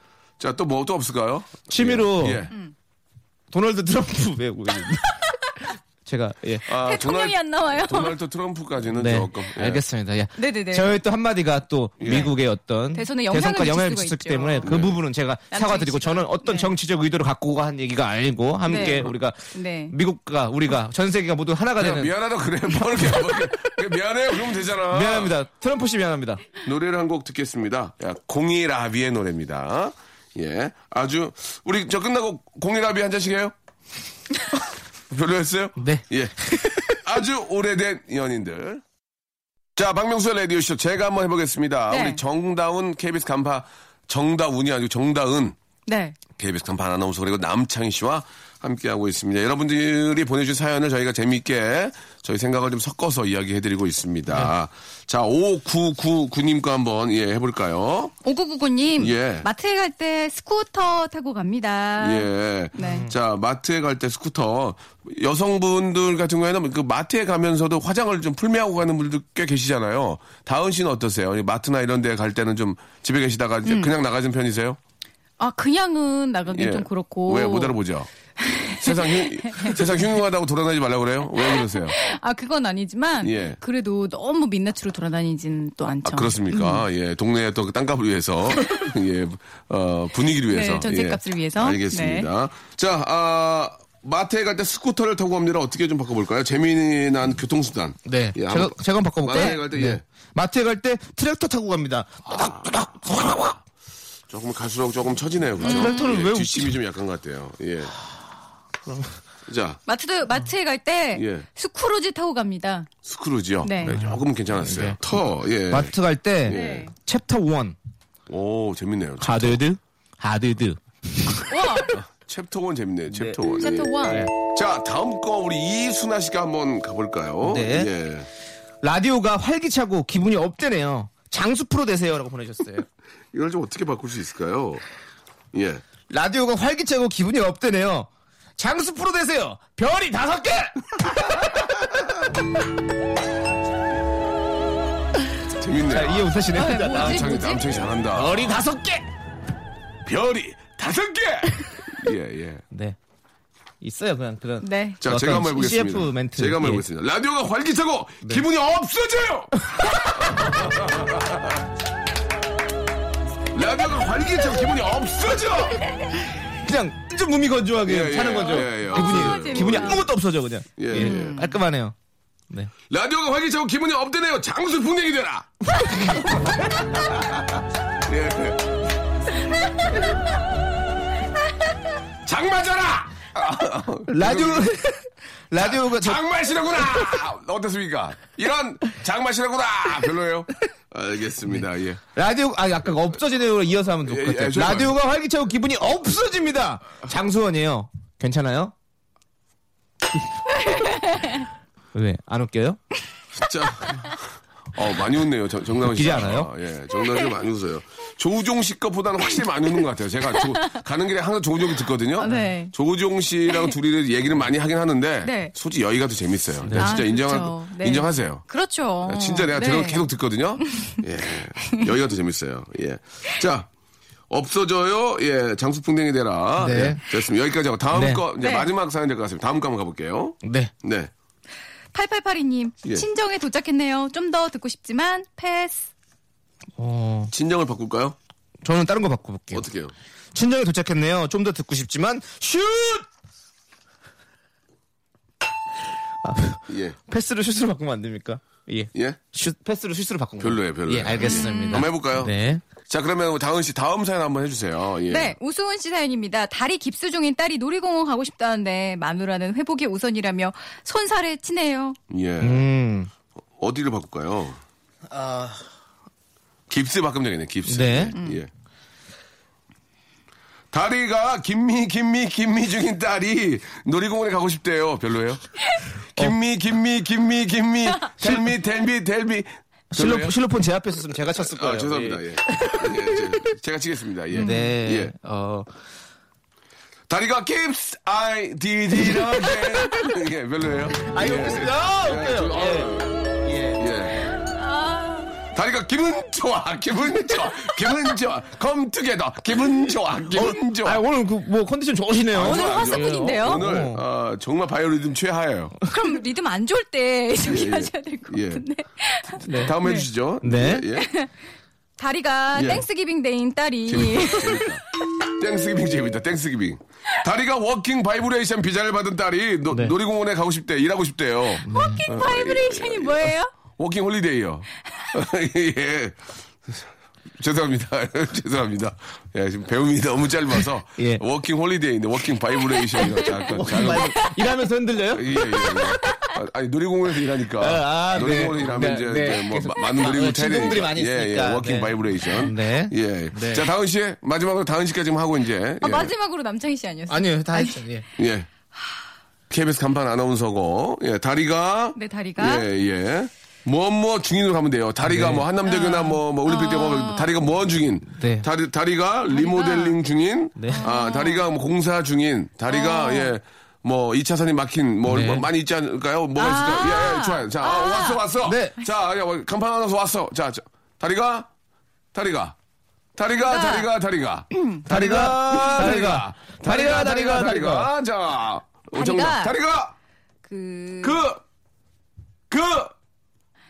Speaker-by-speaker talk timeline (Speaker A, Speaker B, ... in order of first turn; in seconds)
Speaker A: 0.4-2.5, 6.7-9.8, 12.0-12.3, 14.6-15.0, 21.8-25.3, 26.6-33.5, 35.1-38.8, 39.8-45.6, 46.4-58.1, 59.0-59.5, 62.0-74.8, 76.5-78.1, 78.7-82.0, 83.2-83.6, 86.0-100.0, 102.3-102.7, 104.3-107.9, 109.5-109.8, 111.1-111.5, 113.0-116.9, 118.3-119.6, 121.9-128.3, 133.3-134.8, 135.5-135.8, 145.6-146.3, 146.9-148.4, 150.0-152.6, 155.0-159.6, 160.2-161.7, 163.5-165.8, 167.8-170.0, 170.8-171.4, 172.9-175.6, 178.0-178.8, 182.2-184.7, 185.6-192.0, 194.0-194.9, 203.3-218.4, 219.0-223.7, 224.3-231.1, 237.3-238.2, 239.5-239.9, 246.7-246.9, 250.4-252.3, 252.9-255.3, 262.1-262.7, 263.6-264.6, 266.7-268.5, 270.7-275.5, 276.1-280.3, 281.3-285.1, 287.1-293.2, 293.8-294.3, 295.5-301.0, 302.3-305.8, 307.4-308.6, 309.6-311.1, 312.5-312.8, 313.9-334.2, 335.1-346.1, 348.2-348.5, 349.5-371.5, 372.1-372.6, 373.1-379.9, 381.0-381.4, 382.5-382.9
Speaker B: 1.7-2.4, 3.5-6.7, 8.9-22.1, 24.9-26.4, 35.8-37.0, 62.8-63.1, 98.0-103.6, 105.6-106.8, 113.9-115.0, 115.7-117.8, 119.2-121.5, 123.1-123.4, 124.0-124.3, 127.4-127.9, 128.8-132.8, 136.1-141.7, 145.7-149.1, 152.7-152.9, 153.8-156.8, 166.6-171.9, 175.8-176.4, 184.1-186.2, 192.1-198.7, 201.9-202.8, 205.9-206.5, 212.2-212.5, 216.6-216.9, 226.6-227.0, 227.9-228.2, 230.4-230.7, 236.8-237.3, 238.6-239.7, 240.3-243.1, 246.2-252.6, 262.4-263.1, 265.1-265.6, 267.7-268.1, 278.2-278.5, 279.9-283.6, 284.3-285.7, 289.1-289.6, 291.0-293.8, 300.3-304.0, 309.4-309.7, 310.4-310.9, 321.6-322.0, 331.0-331.2, 333.1-335.3, 337.6-343.7, 347.1-348.0, 355.0-355.4, 358.1-358.5, 360.6-360.8, 365.1-365.5, 368.4-368.8, 374.9-377.9
Speaker C: 6.8-8.2, 10.4-11.0, 12.9-14.7, 15.5-16.7, 18.7-19.9, 41.9-42.2, 45.9-46.2, 58.2-63.1, 73.6-73.9, 75.4-77.7, 78.4-79.8, 81.5-86.8, 90.5-92.3, 99.3-99.6, 105.6-106.0, 109.9-112.9, 113.6-114.0, 116.5-116.9, 121.5-121.9, 123.5-124.3, 146.5-147.6, 154.6-155.0, 168.4-170.1, 170.9-171.5, 200.7-201.2, 212.2-212.7, 215.2-215.5, 216.7-220.1, 220.7-221.0, 228.4-228.7, 231.9-235.9, 251.2-251.9, 255.1-262.0, 268.1-268.4, 284.3-284.6, 294.4-295.3, 302.4-303.6, 305.9-310.1, 310.9-311.3, 312.0-314.7, 321.7-323.5, 345.8-347.8, 351.9-352.7, 355.6-357.3, 359.3-360.0, 360.7-361.5, 362.7-363.3, 366.4-368.3, 373.4-373.9, 378.9-379.5, 380.4-381.2